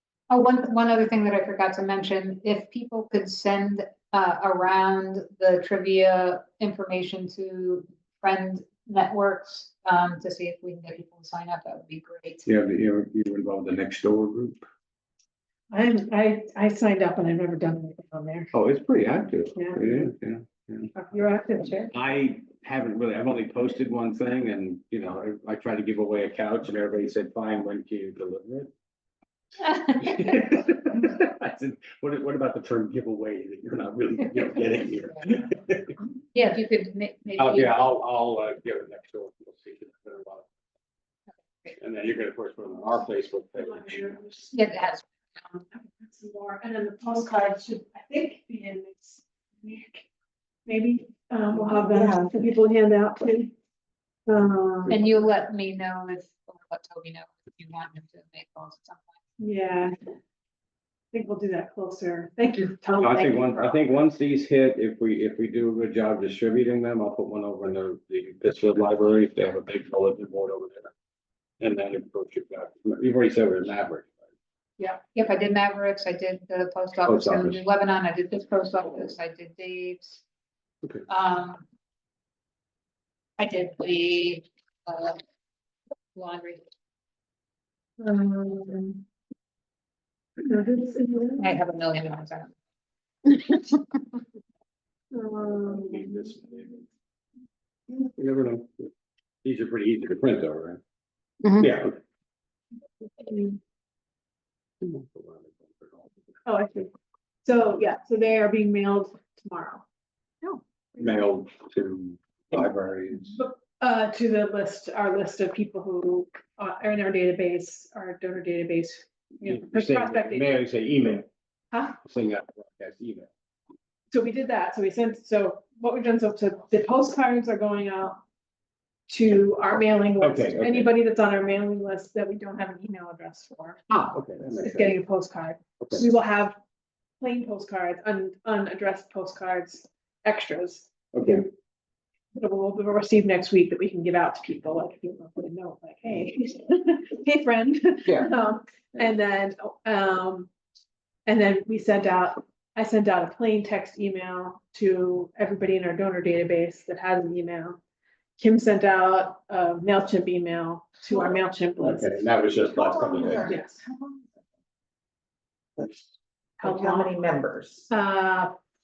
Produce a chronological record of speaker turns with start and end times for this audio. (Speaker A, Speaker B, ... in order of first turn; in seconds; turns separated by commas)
Speaker A: 0.3-12.5, Speaker B: 12.5-14.6, Speaker C: 15.7-18.5, Speaker B: 18.5-20.9, Speaker C: 19.6-20.1, Speaker C: 21.0-21.9, Speaker B: 21.9-28.7, Speaker B: 29.8-36.0, Speaker A: 36.3-37.8, Speaker B: 37.4-40.5, Speaker B: 41.8-44.1, Speaker C: 43.6-44.9, Speaker A: 44.5-45.0, Speaker C: 45.7-50.1, Speaker C: 50.7-53.5, Speaker D: 51.7-52.4, Speaker C: 54.3-55.0, Speaker A: 54.9-59.1, Speaker C: 59.4-60.0, Speaker C: 61.1-63.7, Speaker B: 63.0-70.9, Speaker B: 71.6-74.2, Speaker A: 75.0-80.2, Speaker B: 77.0-77.6, Speaker A: 81.1-81.6, Speaker A: 83.4-85.2, Speaker A: 86.1-86.7, Speaker C: 88.0-89.0, Speaker C: 90.4-91.5, Speaker A: 91.4-92.5, Speaker A: 93.3-94.2, Speaker C: 95.1-96.3, Speaker B: 95.7-96.9, Speaker B: 97.9-98.9, Speaker B: 99.4-100.8, Speaker A: 101.4-101.7, Speaker B: 101.6-102.0, Speaker C: 103.2-103.6, Speaker B: 104.8-106.3, Speaker C: 106.5-106.9, Speaker C: 107.5-109.8, Speaker B: 111.0-113.4, Speaker C: 113.3-120.5, Speaker B: 119.4-121.3, Speaker C: 121.7-122.0, Speaker B: 122.0-123.3, Speaker C: 124.1-128.2, Speaker C: 129.1-133.8, Speaker B: 130.2-130.9, Speaker B: 133.9-135.0, Speaker C: 134.6-136.6, Speaker C: 137.2-141.5, Speaker B: 141.1-141.4, Speaker C: 142.3-150.5, Speaker B: 148.1-148.3, Speaker C: 151.3-157.8, Speaker C: 158.4-162.2, Speaker B: 161.8-163.5, Speaker D: 162.7-164.3, Speaker C: 163.3-163.8, Speaker D: 166.6-167.9, Speaker C: 166.6-167.2, Speaker C: 167.9-168.6